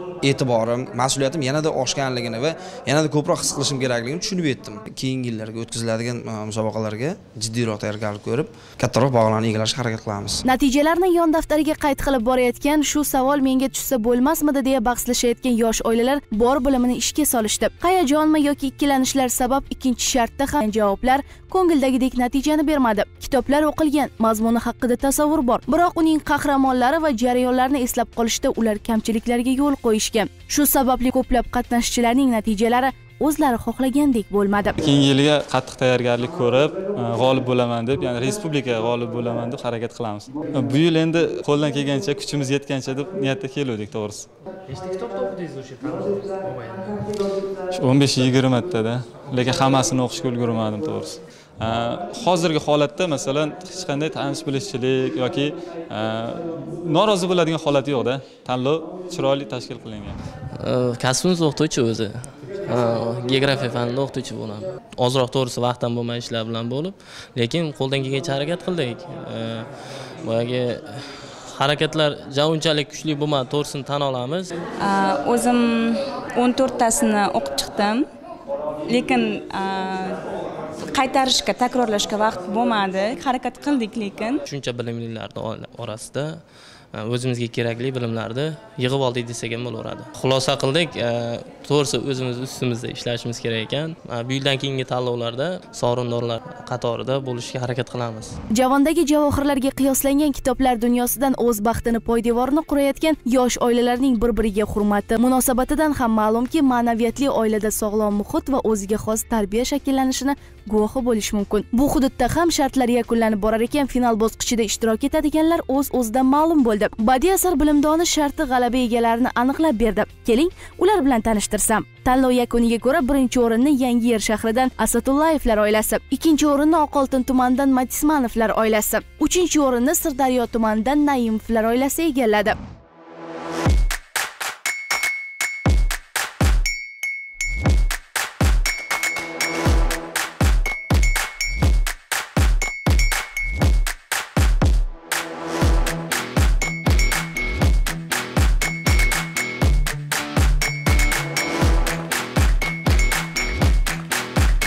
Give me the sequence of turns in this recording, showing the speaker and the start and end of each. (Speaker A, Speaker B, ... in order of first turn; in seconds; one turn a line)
Speaker A: 0.2-10.4
Speaker B: 10.5-34.8
Speaker C: 34.8-44.3
Speaker D: 44.7-47.2
Speaker C: 47.7-60.2
Speaker E: 60.5-69.7
Speaker E: 70.2-70.9
Speaker E: 71.5-74.5
Speaker F: 74.8-78.1
Speaker F: 78.9-80.2
Speaker F: 80.9-84.3
Speaker E: 84.4-86.4
Speaker E: 86.9-98.4
Speaker B: 98.5-132.6